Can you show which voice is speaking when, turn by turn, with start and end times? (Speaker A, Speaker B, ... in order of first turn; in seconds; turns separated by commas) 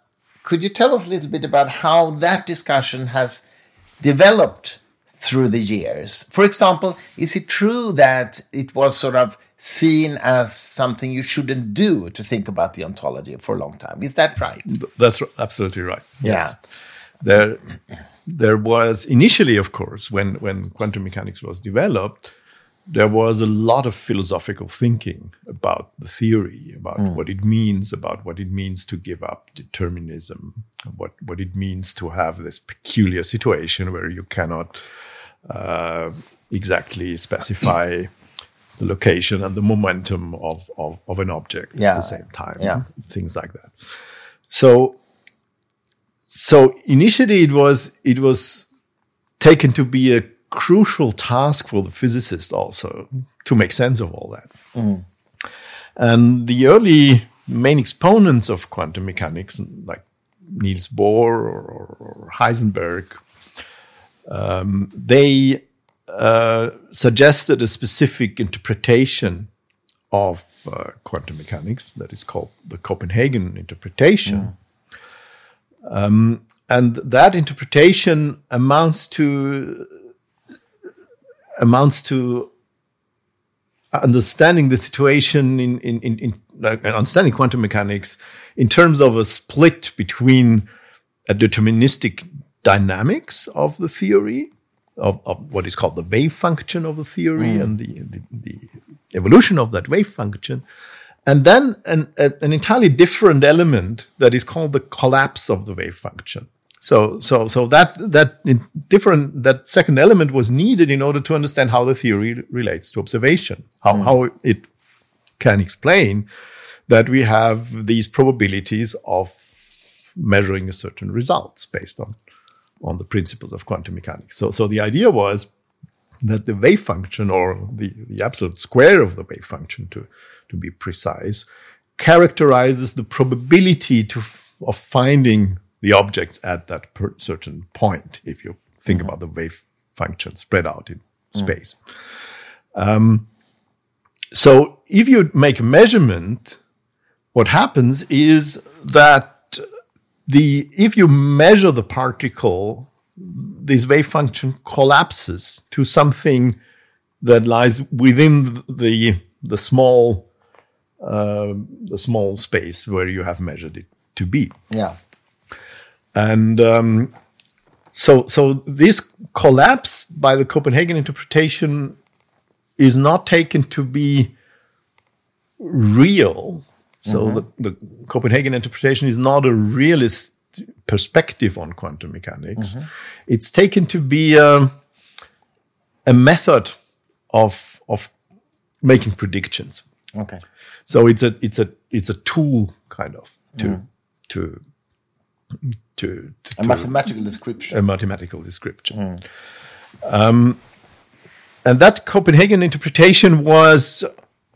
Speaker A: 0.4-3.5, Speaker A: 4.0-14.7, Speaker B: 14.7-16.5, Speaker A: 16.2-16.6, Speaker B: 17.2-17.6, Speaker B: 18.3-22.3, Speaker B: 22.9-34.8, Speaker B: 35.5-38.1, Speaker B: 38.8-43.9, Speaker A: 41.8-42.8, Speaker B: 44.5-45.0, Speaker B: 46.3-48.7, Speaker B: 49.4-54.5, Speaker A: 54.8-55.0, Speaker B: 56.0-63.2, Speaker B: 64.3-69.5, Speaker B: 70.1-74.5, Speaker B: 75.8-79.9, Speaker B: 81.6-82.5, Speaker B: 83.9-90.7, Speaker B: 91.3-100.6, Speaker A: 97.4-97.7, Speaker B: 101.3-114.7, Speaker B: 115.4-116.3, Speaker B: 116.9-119.5, Speaker B: 120.1-122.2, Speaker B: 122.8-125.5, Speaker B: 126.2-131.4, Speaker B: 132.0-141.8, Speaker B: 142.7-143.3, Speaker B: 144.3-146.6, Speaker B: 147.3-149.6, Speaker B: 150.3-156.6, Speaker B: 157.2-160.3, Speaker B: 161.0-164.6, Speaker A: 164.7-165.0, Speaker B: 166.1-167.1, Speaker B: 167.9-172.0, Speaker B: 172.8-174.3, Speaker B: 175.6-184.7, Speaker A: 177.1-177.4, Speaker A: 182.6-182.9, Speaker B: 186.1-186.8, Speaker B: 187.3-188.1, Speaker B: 188.8-189.8, Speaker A: 190.1-190.4, Speaker B: 190.9-194.6, Speaker B: 195.7-196.9, Speaker A: 196.6-197.8, Speaker B: 197.7-199.0, Speaker A: 198.9-199.2, Speaker B: 200.0-200.6, Speaker B: 201.6-204.1